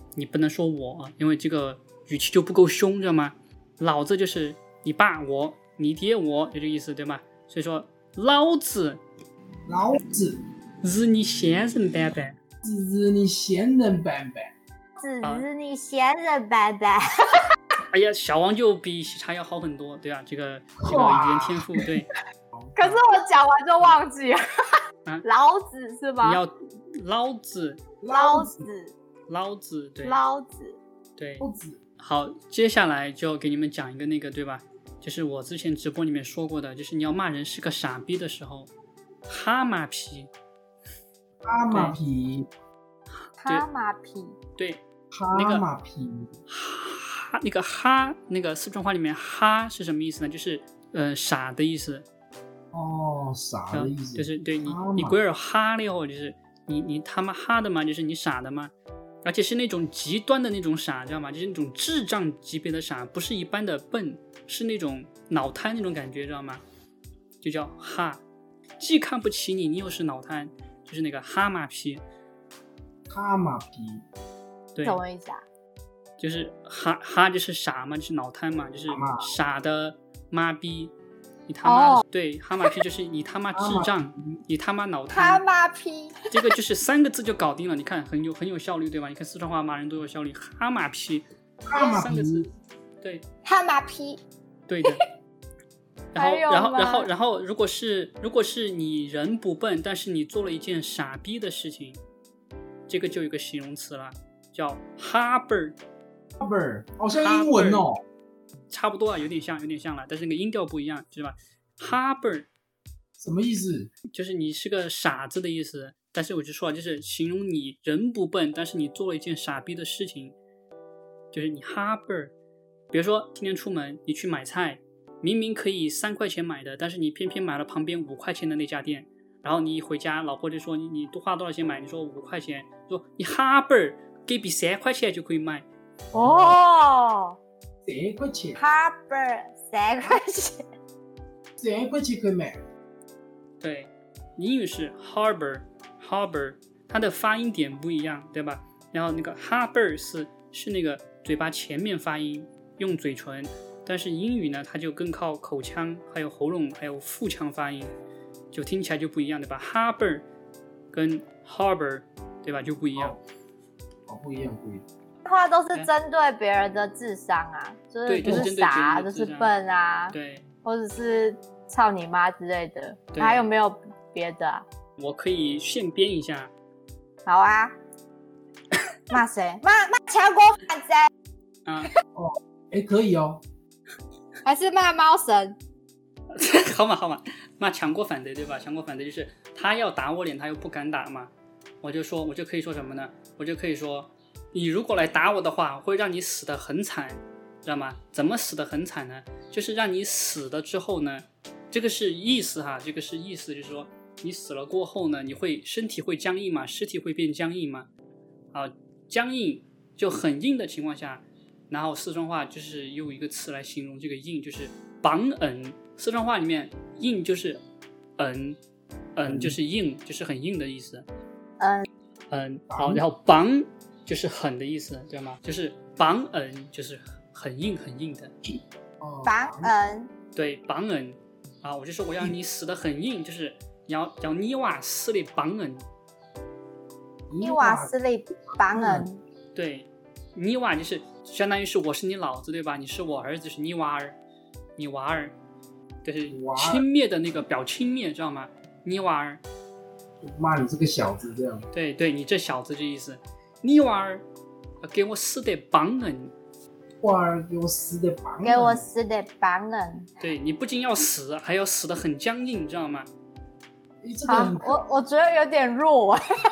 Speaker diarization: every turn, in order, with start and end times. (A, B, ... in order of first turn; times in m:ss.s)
0:00.2-0:09.0 A
0:09.7-0:10.4 B
0:10.8-0:12.3 A
0:12.6-0:14.5 B
0:15.0-0:17.4 C
0:17.9-0:22.1 A
0:20.8-0:21.9 B
0:22.8-0:24.4 C
0:25.2-0:26.4 C
0:26.2-0:27.8 A
0:28.0-0:28.7 B
0:28.1-0:28.9 C
0:29.3-0:30.2 A
0:30.0-0:30.8 C
0:31.2-0:31.4 A
0:31.4-0:31.8 B
0:32.0-0:38.7 A
0:39.3-0:40.3 A
0:41.4-0:42.5 B
0:41.7-0:42.0 A
0:43.2-0:43.6 A
0:43.4-0:44.4 C
0:44.6-0:44.8 A
0:45.1-0:46.3 B
0:45.3-0:45.6 A
0:46.5-0:52.0 A
0:52.7-0:55.2 B
0:53.7-1:06.6 A
1:07.4-1:08.2 A
1:08.8-1:12.0 A
1:13.1-1:14.0 B
1:14.7-1:15.0 A
1:14.8-1:15.4 C
1:16.2-1:20.9 A
1:18.9-1:19.3 B
1:21.5-1:25.4 A
1:21.6-1:22.0 C
1:23.5-1:24.4 B
1:25.1-1:26.3 C
1:26.3-1:32.5 A
1:31.6-1:32.5 B
1:33.4-1:34.2 C
1:34.7-1:35.0 A
1:36.1-1:42.0 A
1:36.2-1:37.1 C
1:42.9-1:45.8 A
1:46.4-1:48.0 B
1:47.2-1:47.8 A
1:48.7-1:52.5 A
1:53.2-1:53.9 B
1:54.1-2:00.3 A
2:01.3-2:02.3 A
2:02.9-2:15.6 A
2:16.1-2:17.4 C
2:16.1-2:16.6 B
2:17.8-2:18.6 B
2:18.6-2:20.6 C
2:21.6-2:22.6 B
2:23.6-2:37.9 A
2:38.5-2:40.2 A
2:40.9-2:43.2 A
2:44.1-2:44.8 B
2:45.2-2:54.6 C
2:48.0-2:49.5 A
2:50.1-2:50.4 A
2:53.1-2:53.5 A
2:55.0-2:56.5 A
2:57.2-2:57.7 C
2:59.1-3:01.1 C
3:02.1-3:03.4 B
3:04.4-3:05.6 C
3:06.3-3:11.3 A
3:11.8-3:27.9 A
3:28.5-3:37.6 A
3:38.2-3:38.6 A
3:39.1-3:41.0 A
3:39.2-3:39.6 B
3:41.6-3:41.8 C
3:42.3-3:48.3 A
3:42.7-3:43.0 B
3:49.0-3:49.7 B
3:49.2-3:50.1 C
3:50.3-3:55.8 A
3:57.3-3:57.9 B
3:57.4-3:59.2 C
3:58.7-3:59.1 B
3:59.5-4:04.2 A
4:04.8-4:05.3 A
4:06.0-4:09.4 A
4:06.3-4:06.8 B
4:10.2-4:11.6 B
4:11.7-4:14.2 A
4:14.8-4:16.3 A
4:17.0-4:18.8 B
4:18.4-4:20.1 C
4:20.2-4:23.1 A
4:24.0-4:24.8 B
4:24.2-4:26.2 C